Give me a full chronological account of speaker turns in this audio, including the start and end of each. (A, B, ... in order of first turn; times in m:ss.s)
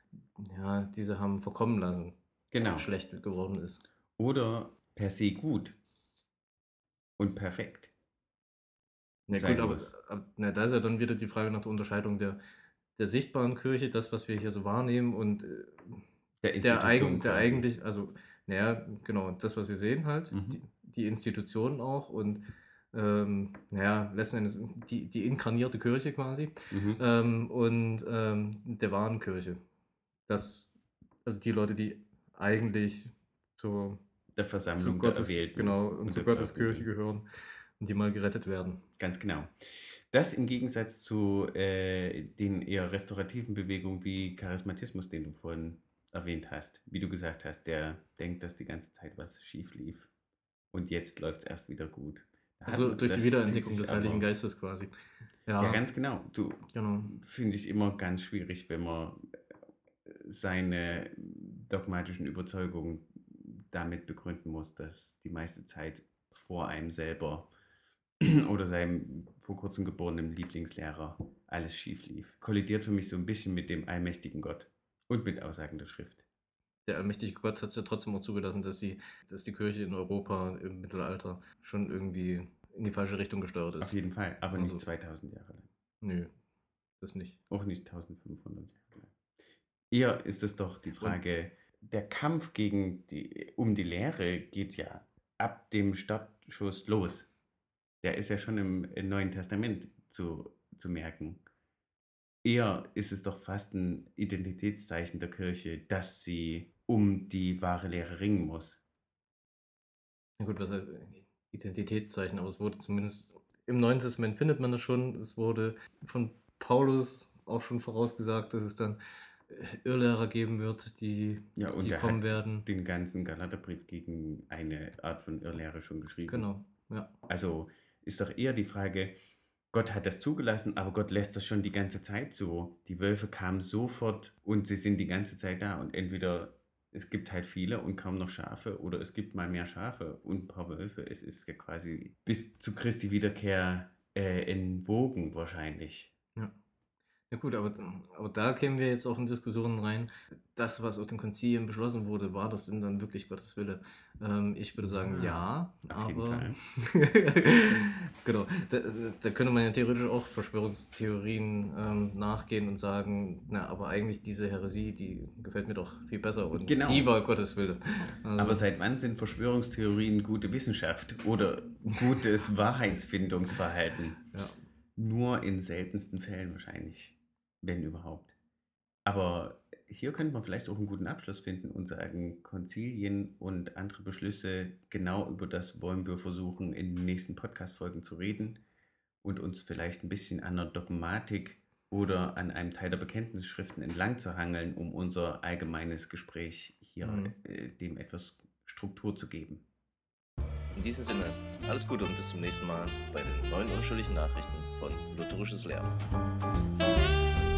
0:00.4-0:03.8 A
0:02.5-0:02.9 B
0:04.2-0:05.7 B
0:07.2-0:07.9 B
0:09.3-0:12.4 A
0:09.3-0:09.9 B
0:13.0-0:16.0 A
0:16.4-0:17.6 B
0:16.6-0:29.6 A
0:20.3-0:20.6 B
0:26.7-0:27.0 B
0:30.3-0:30.7 A
0:31.2-0:34.0 A
0:34.3-0:36.9 B
0:34.8-0:37.2 A
0:37.8-0:38.8 A
0:39.0-0:50.1 B
0:50.7-0:54.2 B
0:52.7-0:54.9 A
0:55.4-0:55.8 A
0:55.6-0:59.2 B
0:56.7-0:57.2 A
1:00.1-1:07.5 B
1:08.2-1:16.2 B
1:16.9-1:24.0 A
1:23.8-1:25.7 B
1:24.5-1:24.8 A
1:26.0-1:26.3 A
1:27.0-1:27.4 A
1:27.5-1:29.1 B
1:29.9-1:37.3 B
1:38.0-1:41.4 B
1:42.4-1:48.8 B
1:50.4-2:02.6 A
2:01.6-2:06.5 B
2:06.3-2:07.1 A
2:07.3-2:09.1 B
2:09.7-2:26.1 B
2:27.3-2:48.6 A
2:34.9-2:36.6 B
2:46.6-2:47.1 B
2:48.4-2:54.2 B
2:55.0-2:58.3 B
2:59.0-3:08.6 B
3:09.2-3:19.6 B
3:17.0-3:17.3 A
3:20.8-3:26.0 C